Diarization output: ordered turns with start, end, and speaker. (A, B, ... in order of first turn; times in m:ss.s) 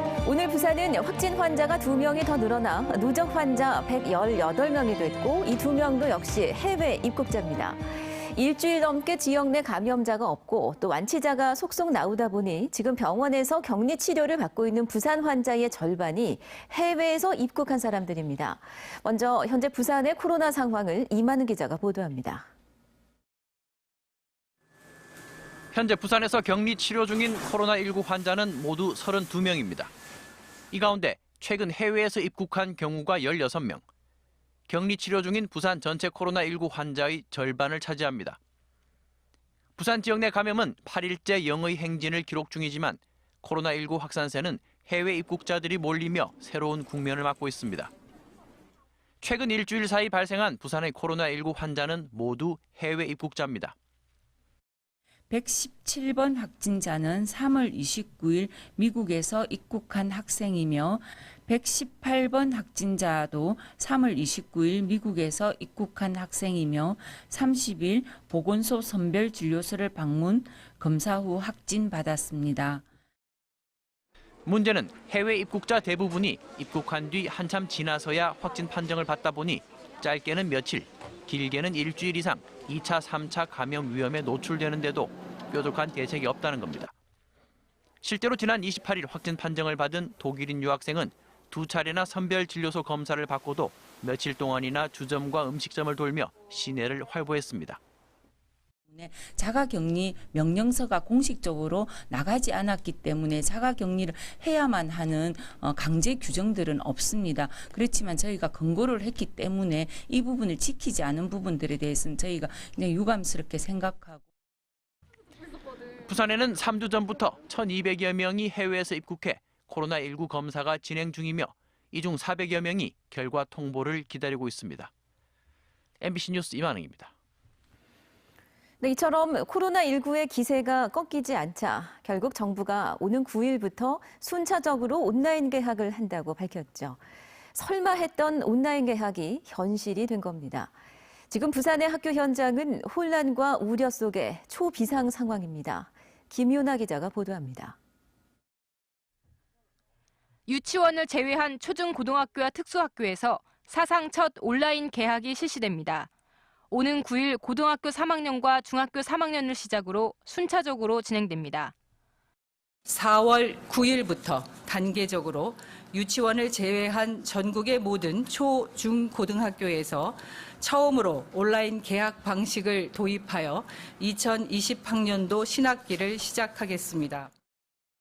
0:00.2-0:22.5 A
0:25.7-0:29.9 B
0:30.7-0:33.8 B
0:34.7-0:38.4 B
0:39.8-0:47.9 B
0:49.2-0:53.7 B
0:55.3-1:12.8 C
1:14.4-1:26.9 B
1:28.0-1:37.8 B
1:38.9-1:54.2 C
1:56.1-2:04.9 B
2:06.0-2:07.1 B
2:08.8-2:17.0 A
2:17.6-2:20.7 A
2:21.3-2:27.8 A
2:30.5-2:36.1 D
2:36.7-2:41.7 D
2:42.9-2:57.3 E